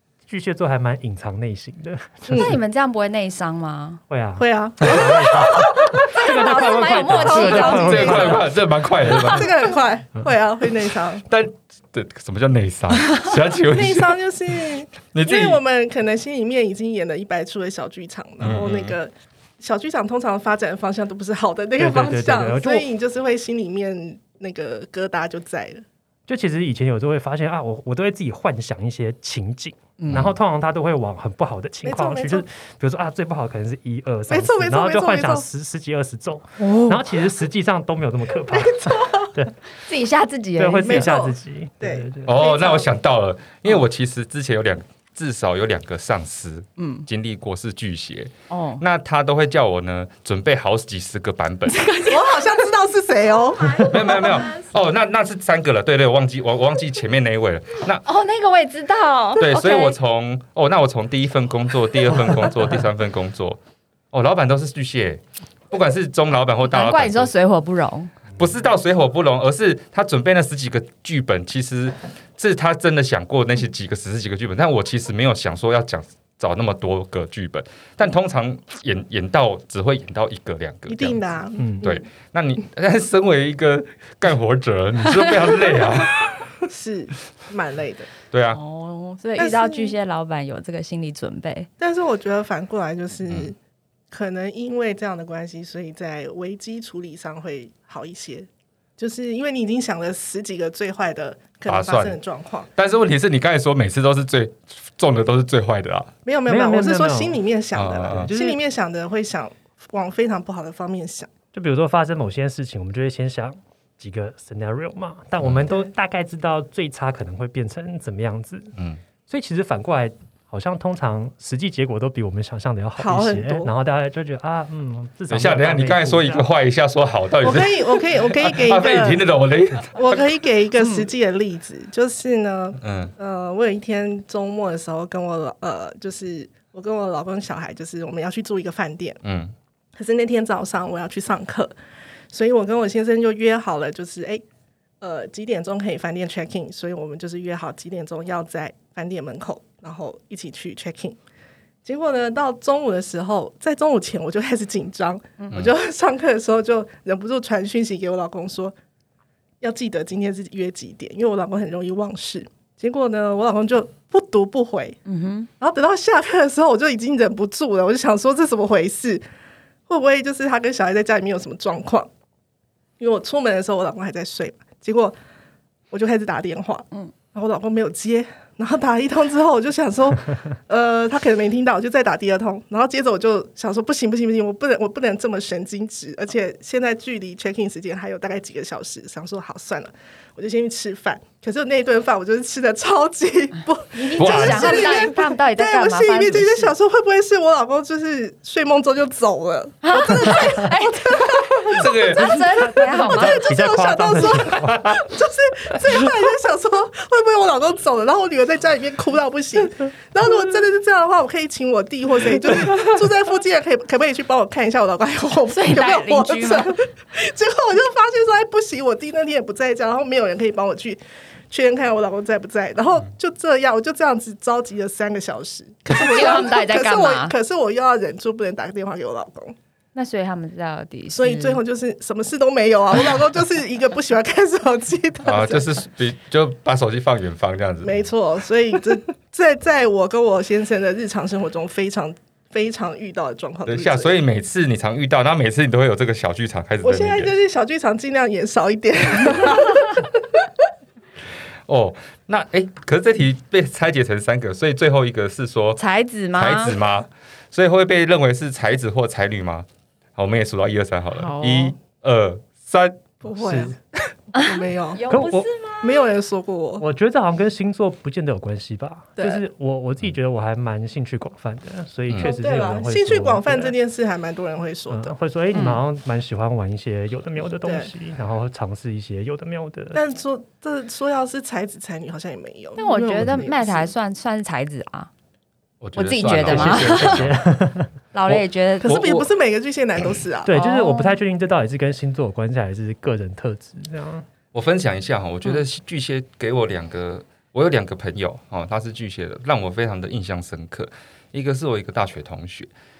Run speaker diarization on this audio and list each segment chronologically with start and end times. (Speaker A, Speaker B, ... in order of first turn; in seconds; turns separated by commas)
Speaker A: 0.3-2.5, Speaker B: 2.3-2.6, Speaker C: 2.3-4.0, Speaker A: 4.1-8.5, Speaker B: 4.4-8.5, Speaker C: 6.1-8.3, Speaker D: 7.3-9.5, Speaker B: 9.0-11.2, Speaker D: 11.2-14.2, Speaker B: 13.6-25.8, Speaker D: 15.1-15.6, Speaker D: 18.4-19.0, Speaker A: 21.8-22.9, Speaker A: 26.3-39.5, Speaker D: 30.1-30.4, Speaker B: 31.8-32.4, Speaker B: 34.3-35.5, Speaker B: 36.6-37.0, Speaker B: 38.5-39.3, Speaker C: 39.8-41.1, Speaker A: 40.6-42.3, Speaker B: 40.8-42.9, Speaker D: 42.2-51.8, Speaker C: 46.8-47.1, Speaker C: 48.5-48.8, Speaker C: 51.7-52.6, Speaker B: 52.1-54.4, Speaker C: 53.6-54.6, Speaker D: 53.8-58.0, Speaker C: 58.0-60.0, Speaker D: 59.4-63.6, Speaker D: 64.1-67.3, Speaker C: 66.6-68.1, Speaker D: 68.3-81.2, Speaker B: 80.9-82.0, Speaker A: 81.6-81.8, Speaker D: 81.8-86.5, Speaker B: 86.7-88.1, Speaker D: 88.3-88.6, Speaker C: 88.5-91.7, Speaker B: 89.4-89.9, Speaker B: 91.8-93.6, Speaker B: 94.1-102.7, Speaker D: 101.7-102.2, Speaker D: 102.8-106.1, Speaker B: 106.2-111.3, Speaker A: 106.5-107.4, Speaker D: 107.7-108.3, Speaker A: 108.1-108.6, Speaker A: 111.5-118.7, Speaker D: 115.4-115.7, Speaker A: 119.3-126.4, Speaker B: 123.0-123.7, Speaker D: 125.3-130.3, Speaker B: 127.4-129.2, Speaker B: 129.9-139.2, Speaker D: 132.8-133.1, Speaker D: 139.2-139.5, Speaker B: 139.9-141.7, Speaker B: 142.3-144.4, Speaker B: 145.0-151.2, Speaker B: 151.8-158.7, Speaker B: 159.6-165.0, Speaker C: 165.1-165.5, Speaker B: 165.6-169.2, Speaker B: 169.9-172.1, Speaker B: 173.0-175.1, Speaker B: 175.9-202.1, Speaker C: 193.9-196.7, Speaker D: 194.2-195.0, Speaker C: 199.8-203.5, Speaker D: 201.7-202.4, Speaker A: 202.2-204.8, Speaker B: 203.0-229.6, Speaker D: 204.6-205.1, Speaker C: 215.5-216.7, Speaker C: 225.9-227.3, Speaker C: 229.9-231.6, Speaker B: 231.1-235.7, Speaker D: 235.2-238.1, Speaker B: 237.8-244.1, Speaker D: 243.7-247.3, Speaker B: 246.8-250.4, Speaker D: 251.7-255.8, Speaker C: 255.8-256.8, Speaker D: 256.3-263.1, Speaker C: 261.1-261.8, Speaker B: 263.2-263.8, Speaker A: 263.4-263.7, Speaker B: 264.3-265.2, Speaker C: 264.3-266.1, Speaker A: 265.1-265.5, Speaker B: 265.8-266.8, Speaker A: 266.8-273.8, Speaker B: 272.2-275.1, Speaker A: 274.9-280.0, Speaker C: 275.5-275.8, Speaker B: 277.6-277.9, Speaker B: 279.9-283.9, Speaker C: 282.8-285.1, Speaker D: 285.8-287.3, Speaker C: 285.9-287.2, Speaker A: 286.4-288.3, Speaker C: 288.1-289.1, Speaker B: 288.8-290.6, Speaker D: 288.8-289.3, Speaker A: 290.4-294.2, Speaker C: 290.5-291.2, Speaker D: 294.5-302.7